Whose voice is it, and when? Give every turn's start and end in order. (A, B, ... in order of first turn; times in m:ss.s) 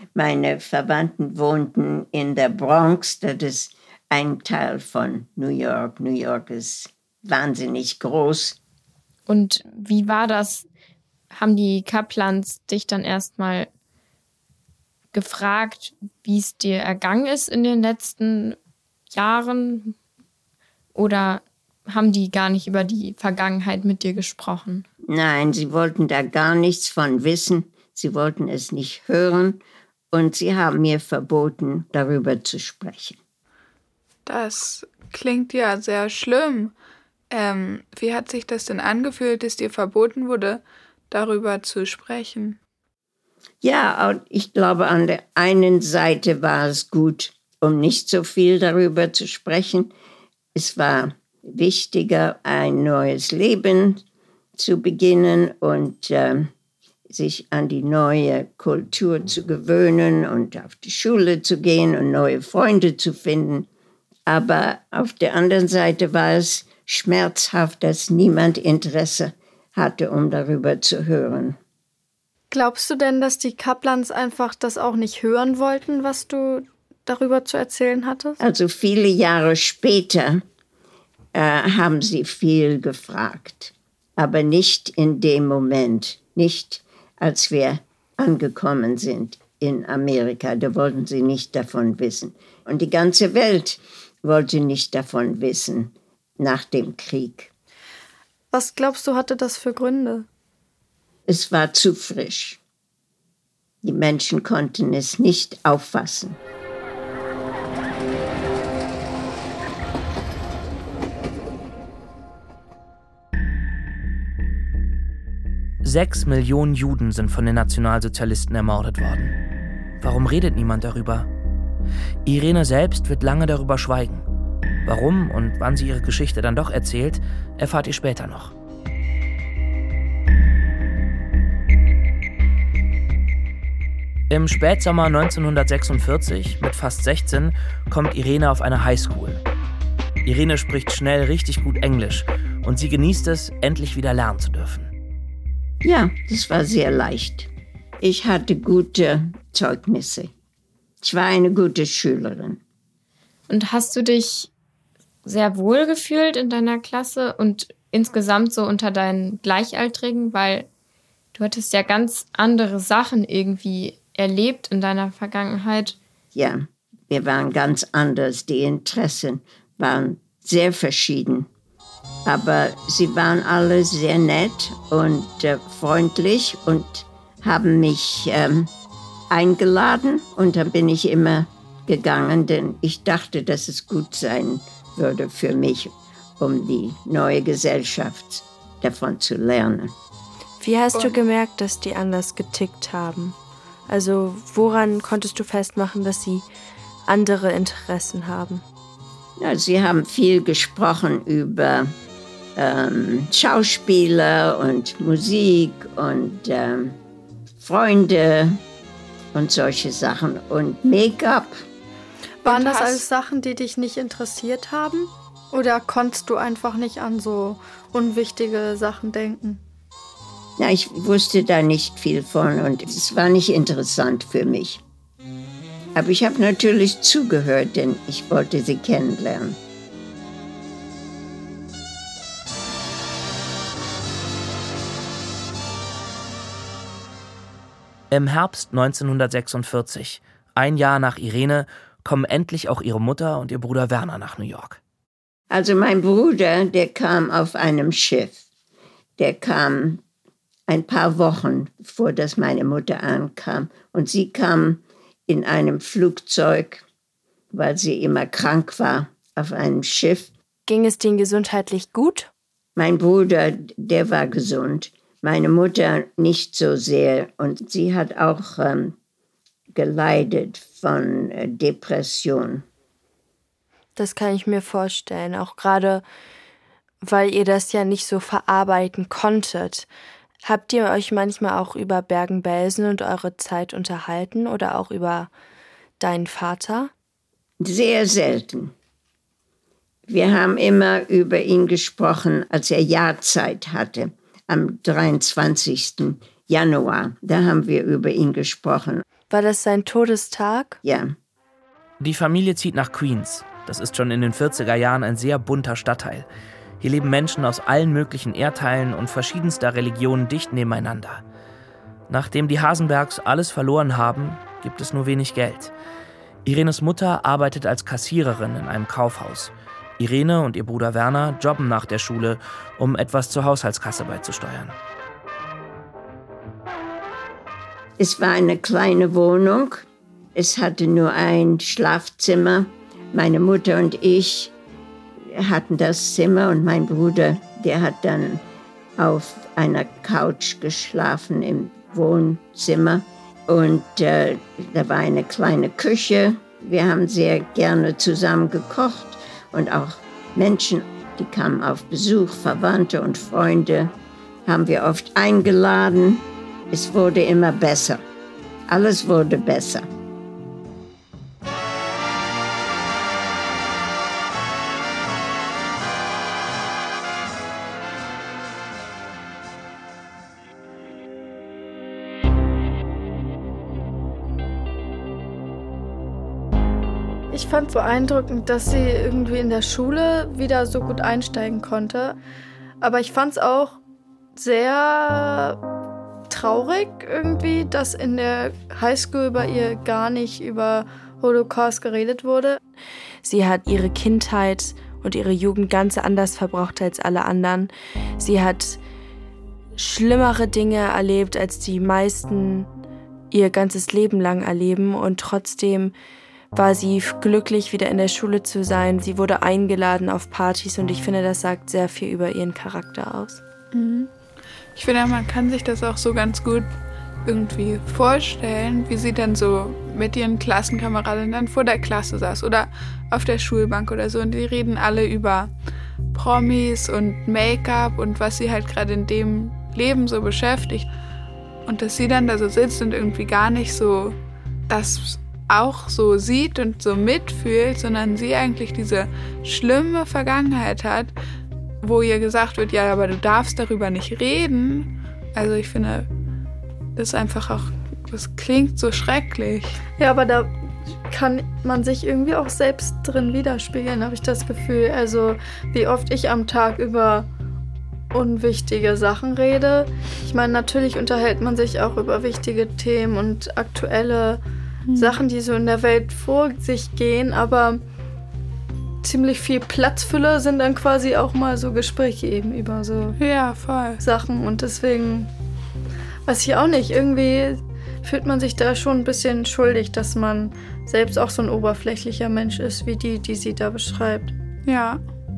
0:00.2-0:08.6 A
0:09.3-0:10.7 B
0:11.3-0:13.7 B
0:15.1-0:18.6 B
0:19.1-0:20.0 B
0:20.9-0:24.8 B
0:25.0-0:33.2 A
0:34.2-0:36.7 C
0:37.3-0:42.6 C
0:43.6-0:49.9 A
0:50.5-0:54.0 A
0:54.6-0:56.5 A
0:57.1-1:03.7 A
1:04.3-1:11.6 A
1:12.5-1:18.4 D
1:18.4-1:20.4 A
1:21.3-1:37.5 A
1:38.5-1:40.3 D
1:41.3-1:42.6 A
1:43.8-1:46.4 A
1:55.8-1:59.3 E
2:00.0-2:01.3 E
2:02.2-2:04.2 E
2:04.8-2:08.5 E
2:14.3-2:19.4 E
2:20.2-2:24.9 E
2:25.8-2:30.3 A
2:31.0-2:32.6 A
2:33.5-2:34.5 B
2:35.2-2:40.7 B
2:41.3-2:46.0 B
2:46.3-2:51.5 A
2:52.2-2:58.7 A
2:59.3-3:10.0 A
3:10.6-3:13.4 F
3:10.9-3:11.2 C
3:13.9-3:16.5 F
3:17.1-3:18.6 F
3:19.4-3:21.9 A
3:22.6-3:27.0 A
3:27.6-3:28.6 A
3:29.3-3:31.6 A
3:32.4-3:39.6 D
3:32.4-3:33.0 C
3:40.6-3:44.8 A
3:45.9-3:49.6 A
3:58.1-4:04.8 E
4:05.5-4:08.4 A
4:09.2-4:10.0 A
4:10.7-4:16.8 A
4:17.5-4:20.3 A
4:20.6-4:22.3 F
4:22.8-4:29.0 A
4:29.7-4:32.6 A
4:34.0-4:36.0 F
4:37.0-4:39.9 F
4:40.4-4:45.3 F
4:46.0-4:46.9 F
4:47.6-4:48.7 A
4:50.1-4:59.0 A
4:59.3-5:00.8 F
5:00.8-5:01.1 A
5:02.0-5:06.2 E
5:06.8-5:11.2 E
5:12.1-5:15.7 E
5:16.4-5:24.7 E
5:28.0-5:34.5 A
5:35.3-5:38.4 A
5:39.0-5:53.9 A
5:54.4-5:58.0 A
5:58.7-5:59.9 A
6:17.3-6:22.2 D
6:22.8-6:23.8 D
6:24.3-6:25.6 D
6:26.3-6:32.6 D
6:33.2-6:38.8 F
6:39.8-6:42.7 F
6:43.3-6:45.9 F
6:46.5-6:53.4 F
6:53.7-6:54.1 C
6:54.7-6:56.7 C
6:57.2-7:05.5 C
7:06.1-7:10.9 C
7:11.6-7:14.2 C
7:14.7-7:21.1 C
7:21.8-7:26.1 C
7:27.0-7:29.8 C
7:30.0-7:37.3 D
7:38.1-7:44.4 D
7:44.9-7:45.2 C
7:44.9-7:47.8 D
7:49.0-7:53.2 D
7:53.2-7:54.0 C
7:54.0-7:55.3 D
7:56.2-8:04.3 D
8:04.6-8:05.0 C